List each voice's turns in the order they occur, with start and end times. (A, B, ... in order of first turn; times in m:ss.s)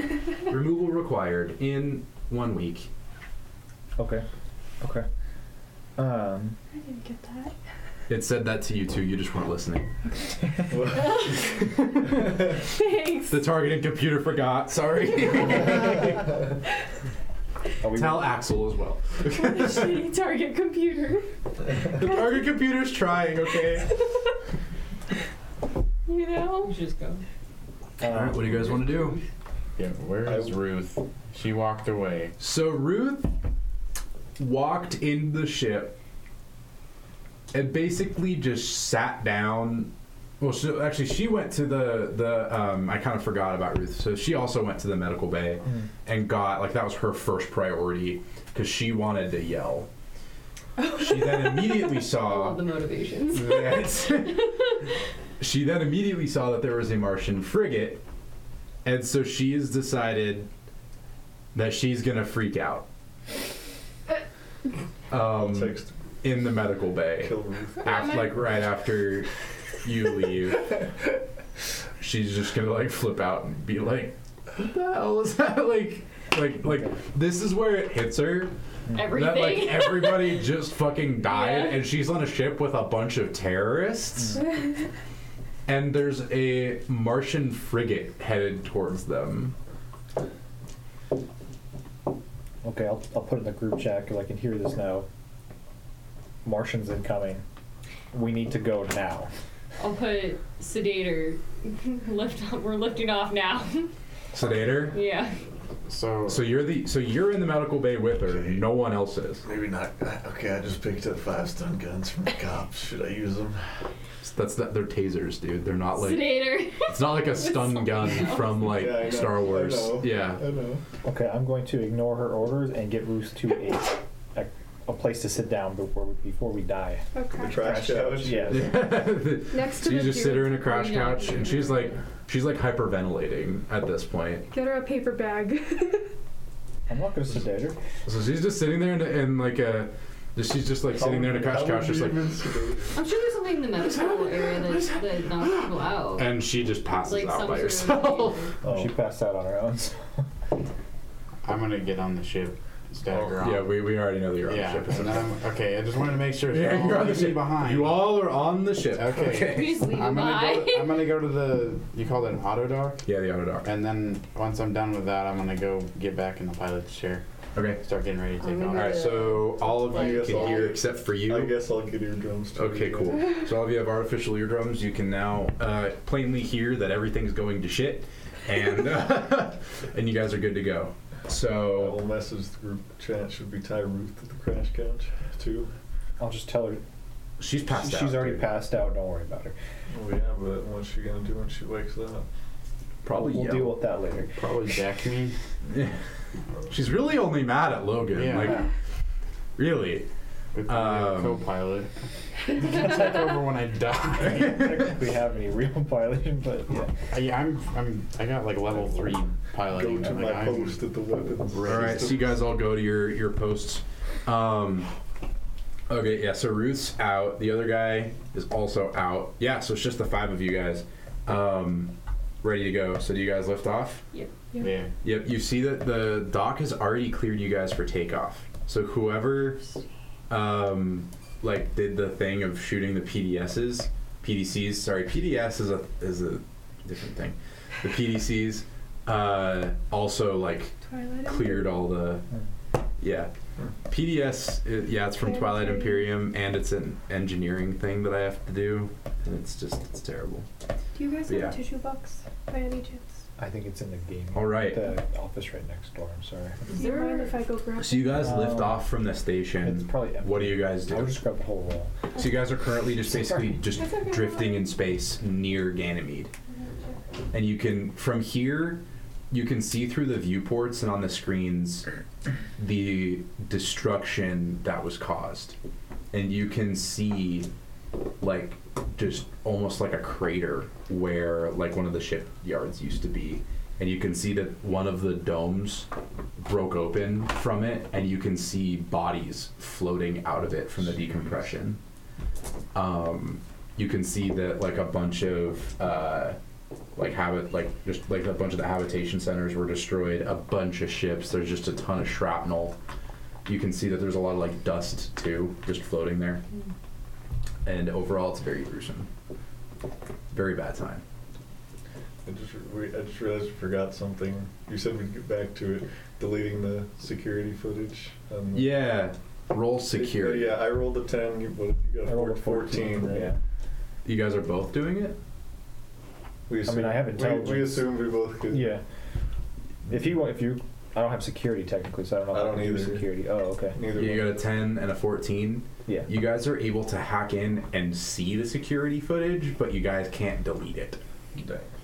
0:00.5-0:02.9 A
0:04.0-0:04.2 B
0:04.8-0:05.1 B
0:06.0-0:06.6 B
0:06.7-0:07.5 C
0:08.1-0:09.9 A
0:10.7-0:11.3 D
0:10.8-0:11.4 C
0:11.3-0:12.4 A
0:12.5-0:13.4 C
0:13.3-0:16.2 A
0:17.8-0:18.4 B
0:17.9-0:20.0 A
0:19.2-0:21.3 C
0:21.8-0:23.9 A
0:23.5-0:24.3 C
0:26.1-0:26.7 C
0:26.6-0:27.2 E
0:28.0-0:28.6 B
0:28.0-0:29.2 A
0:28.6-0:29.2 E
0:29.8-0:32.3 F
0:32.4-0:33.3 A
0:34.4-0:36.0 A
0:37.5-0:49.9 A
0:50.9-0:52.6 A
0:51.2-0:51.5 C
0:51.9-0:54.3 E
0:53.3-0:54.5 A
0:55.4-0:58.0 A
0:58.8-1:00.5 A
1:01.5-1:02.8 A
1:05.1-1:10.8 A
1:05.1-1:05.9 D
1:07.2-1:08.1 D
1:12.0-1:24.4 A
1:18.9-1:20.5 E
1:21.2-1:21.8 E
1:25.6-1:29.5 A
1:32.6-1:35.1 B
1:36.4-1:37.4 B
1:38.1-1:39.3 B
1:39.8-1:43.9 E
1:44.3-1:45.0 A
1:44.9-1:45.4 E
1:45.9-1:46.5 F
1:46.3-1:49.4 A
1:48.3-1:48.6 D
1:49.4-1:53.7 D
1:54.2-2:00.4 A
1:56.0-1:59.0 E
1:58.6-2:00.8 D
2:01.0-2:08.7 B
2:07.1-2:07.6 C
2:07.4-2:08.7 D
2:08.5-2:14.4 A
2:09.5-2:10.8 C
2:10.6-2:12.0 E
2:14.5-2:16.1 C
2:16.9-2:17.8 B
2:18.0-2:22.4 A
2:20.9-2:23.0 D
2:22.9-2:26.4 E
2:23.9-2:24.9 A
2:26.1-2:28.5 A
2:27.0-2:28.5 E
2:28.6-2:28.9 D
2:28.6-2:30.0 B
2:31.4-2:33.8 F
2:33.1-2:35.3 A
2:34.4-2:38.1 F
2:36.5-2:39.9 A
2:38.9-2:43.0 F
2:39.4-2:41.0 E
2:43.0-2:43.7 A
2:43.6-2:47.2 F
2:47.5-2:47.8 A
2:47.8-2:49.1 F
2:48.4-2:50.7 E
2:48.7-2:51.5 A
2:49.8-2:53.3 D
2:52.6-3:02.0 A
3:01.7-3:05.7 D
3:06.2-3:06.8 B
3:07.4-3:08.5 A
3:07.7-3:09.5 B
3:09.9-3:12.2 D
3:13.0-3:13.8 A
3:13.1-3:14.5 B
3:14.4-3:15.4 F
3:15.7-3:16.0 A
3:16.7-3:18.7 A
3:18.1-3:18.7 F
3:19.6-3:20.1 A
3:20.5-3:21.9 F
3:20.7-3:21.4 A
3:22.5-3:24.6 F
3:24.2-3:26.9 B
3:27.1-3:30.8 F
3:29.6-3:32.3 D
3:31.5-3:32.2 F
3:31.6-3:34.9 A
3:35.9-3:44.0 A
3:44.6-3:44.9 F
3:45.0-3:49.6 A
3:50.3-4:02.2 A
4:00.8-4:01.9 C
4:03.0-4:03.3 A
4:03.9-4:10.5 A
4:05.2-4:06.1 C
4:10.9-4:13.1 C
4:11.3-4:11.6 A
4:13.4-4:16.7 B
4:14.3-4:14.8 A
4:16.7-4:18.3 C
4:16.7-4:17.3 E
4:17.8-4:21.2 A
4:18.2-4:18.8 B
4:19.6-4:22.0 B
4:22.1-4:26.3 A
4:23.1-4:23.5 B
4:23.8-4:24.7 C
4:26.5-4:27.0 C
4:27.3-4:31.9 A
4:32.6-4:35.6 A
4:36.1-4:37.5 A
4:38.2-4:51.8 A
4:52.7-4:56.4 A
4:56.9-5:02.8 A
5:03.4-5:06.4 A
5:07.6-5:09.1 A
5:10.3-5:11.0 A
5:12.2-5:18.8 D
5:18.5-5:20.6 A
5:19.9-5:23.3 D
5:22.0-5:23.4 B
5:24.0-5:25.2 A
5:26.5-5:28.7 D
5:26.6-5:27.9 B
5:28.5-5:28.8 B
5:29.9-5:33.8 B
5:32.3-5:33.1 D
5:33.7-5:34.4 D
5:33.9-5:41.0 A
5:41.3-5:41.7 D